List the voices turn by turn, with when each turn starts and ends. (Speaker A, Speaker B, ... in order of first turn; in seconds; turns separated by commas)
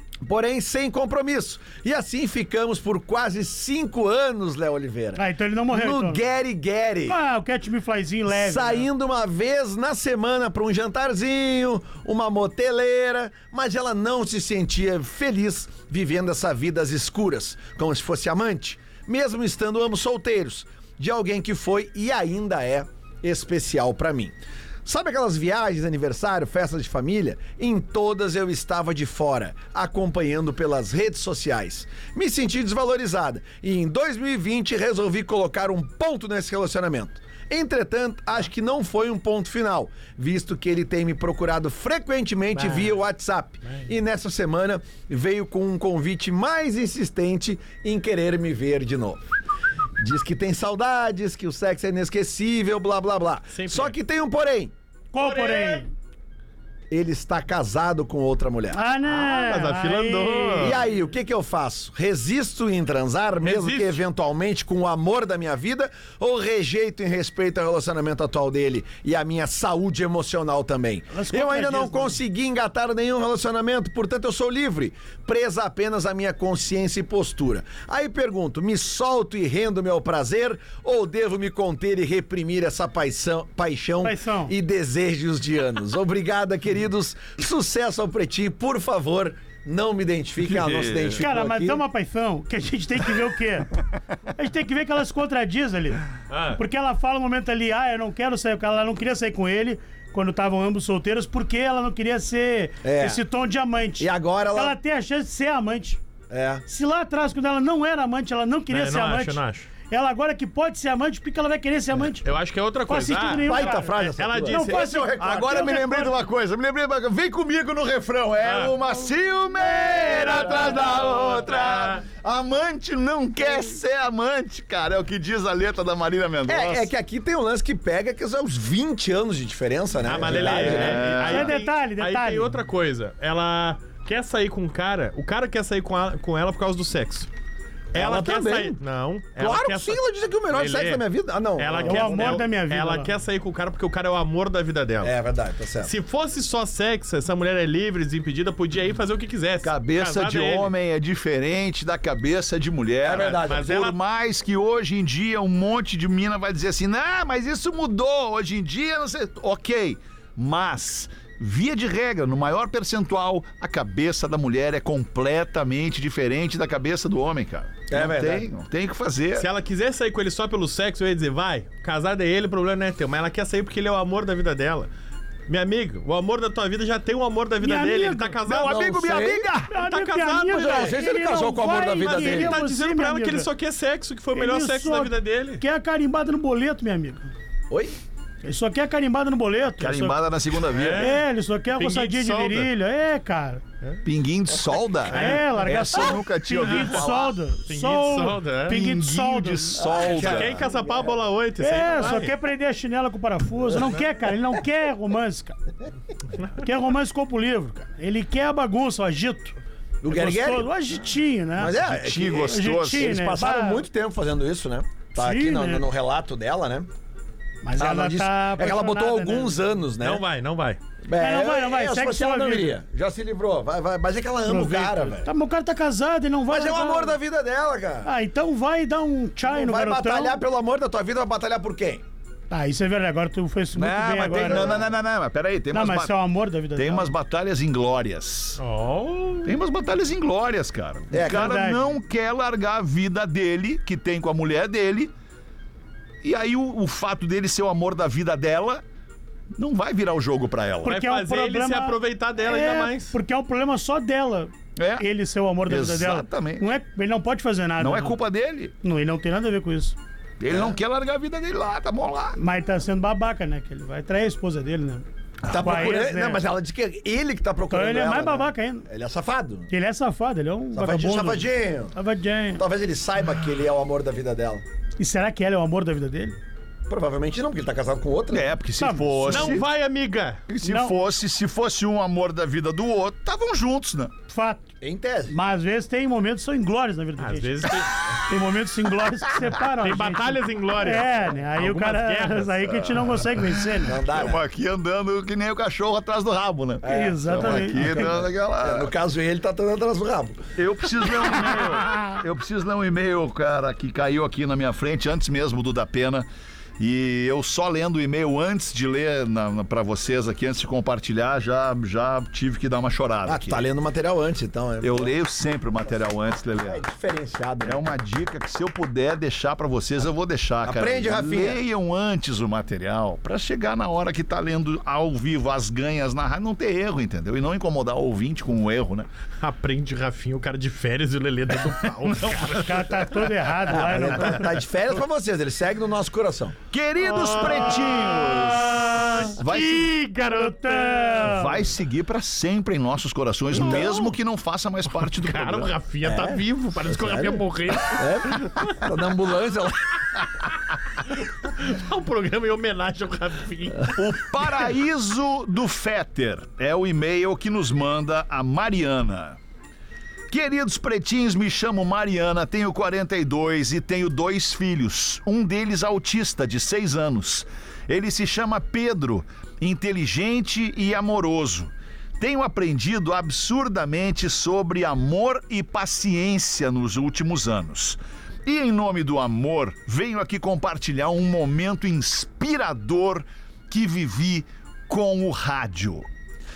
Speaker A: 0.2-7.2, Speaker B: 5.2-6.2, Speaker B: 7.1-8.9, Speaker A: 8.3-49.2, Speaker C: 42.6-42.9, Speaker A: 50.0-54.7, Speaker C: 53.5-54.0, Speaker B: 55.1-55.9, Speaker C: 55.2-55.9, Speaker A: 56.9-58.8, Speaker B: 58.7-60.7, Speaker C: 59.0-60.8, Speaker A: 60.6-91.8, Speaker C: 63.4-64.0, Speaker B: 71.1-72.2, Speaker B: 84.0-84.5, Speaker D: 90.4-91.2, Speaker B: 91.2-93.7, Speaker B: 94.4-96.0, Speaker C: 96.3-96.6, Speaker B: 96.5-106.0, Speaker A: 102.8-103.2, Speaker A: 104.0-104.8, Speaker A: 106.3-106.6, Speaker B: 106.7-112.3, Speaker C: 108.7-109.7, Speaker C: 112.2-114.9, Speaker B: 112.9-114.0, Speaker A: 113.5-115.6, Speaker B: 114.5-116.2, Speaker D: 115.2-126.9, Speaker C: 118.4-118.8, Speaker C: 120.5-122.1, Speaker A: 126.5-131.2, Speaker C: 130.1-137.3, Speaker D: 130.2-131.5, Speaker B: 131.2-132.6, Speaker C: 137.9-141.1, Speaker A: 137.9-138.8, Speaker A: 139.4-142.4, Speaker C: 141.6-145.2, Speaker B: 141.8-143.1, Speaker A: 145.0-145.9, Speaker C: 145.8-150.7, Speaker D: 149.7-169.5, Speaker A: 153.0-153.7, Speaker C: 153.2-154.0, Speaker A: 167.9-168.5, Speaker C: 169.3-174.9, Speaker C: 175.5-178.8, Speaker B: 177.6-178.4, Speaker D: 178.5-179.7, Speaker A: 178.5-179.5, Speaker B: 179.7-183.5, Speaker C: 179.8-181.0, Speaker A: 180.5-182.6, Speaker C: 182.0-185.6, Speaker B: 184.3-187.3, Speaker A: 187.7-188.0, Speaker B: 188.4-190.2, Speaker D: 189.8-191.2, Speaker C: 190.7-191.2, Speaker B: 190.9-193.6, Speaker C: 191.8-192.7, Speaker D: 194.0-197.3, Speaker C: 195.1-195.7, Speaker B: 195.1-200.2, Speaker C: 197.7-198.8, Speaker D: 198.7-200.7, Speaker A: 199.8-201.1, Speaker C: 200.0-202.3, Speaker B: 201.6-205.6, Speaker B: 206.6-209.6, Speaker A: 210.0-210.7, Speaker B: 210.1-211.8, Speaker A: 211.6-216.9, Speaker D: 211.8-213.1, Speaker B: 212.4-213.8, Speaker B: 215.2-215.8, Speaker B: 217.6-219.6, Speaker A: 217.8-220.2, Speaker C: 220.0-220.8, Speaker A: 221.0-225.3, Speaker B: 221.2-222.8, Speaker C: 224.5-225.1, Speaker B: 224.6-227.2, Speaker A: 226.5-228.1, Speaker B: 228.1-230.4, Speaker A: 229.4-232.0, Speaker B: 232.5-234.8, Speaker D: 233.8-236.2, Speaker A: 234.2-234.9, Speaker B: 235.7-237.1, Speaker D: 236.8-238.6, Speaker C: 238.6-239.6, Speaker D: 239.4-245.1, Speaker A: 241.1-241.6, Speaker B: 241.2-241.8, Speaker D: 246.2-248.8, Speaker D: 249.6-251.0, Speaker C: 250.8-253.2, Speaker B: 250.8-258.2, Speaker D: 254.8-255.1, Speaker D: 255.7-256.7, Speaker D: 257.8-258.7, Speaker B: 258.8-260.0, Speaker D: 260.4-262.4, Speaker A: 260.5-260.8, Speaker B: 262.4-266.4, Speaker D: 265.4-265.8, Speaker A: 265.5-269.7, Speaker B: 267.7-268.9, Speaker B: 269.7-272.6, Speaker A: 270.7-271.9, Speaker A: 272.6-274.6, Speaker B: 275.0-276.4, Speaker A: 276.9-278.5, Speaker D: 278.3-279.6, Speaker B: 278.8-279.5, Speaker C: 279.3-280.4, Speaker D: 280.5-284.1, Speaker B: 280.6-281.0, Speaker B: 284.3-284.7, Speaker A: 284.8-285.4, Speaker B: 285.3-294.0, Speaker C: 287.2-287.9, Speaker C: 289.8-292.8, Speaker A: 293.9-294.4, Speaker D: 294.1-298.9, Speaker A: 296.8-300.5, Speaker B: 296.9-298.1, Speaker D: 300.6-306.3, Speaker D: 306.8-313.6, Speaker A: 313.3-315.1, Speaker D: 314.8-316.9, Speaker A: 316.6-317.8, Speaker D: 317.6-329.1, Speaker A: 320.6-321.6, Speaker C: 329.4-333.0, Speaker D: 332.1-332.7, Speaker B: 332.6-334.5, Speaker A: 333.7-336.6, Speaker D: 336.7-339.9, Speaker C: 337.0-341.4, Speaker B: 340.2-341.7, Speaker D: 341.2-345.8, Speaker A: 343.5-344.0, Speaker C: 343.6-344.1, Speaker C: 344.9-348.5, Speaker A: 346.0-350.0, Speaker C: 351.4-353.9, Speaker D: 353.9-359.4, Speaker D: 360.3-386.1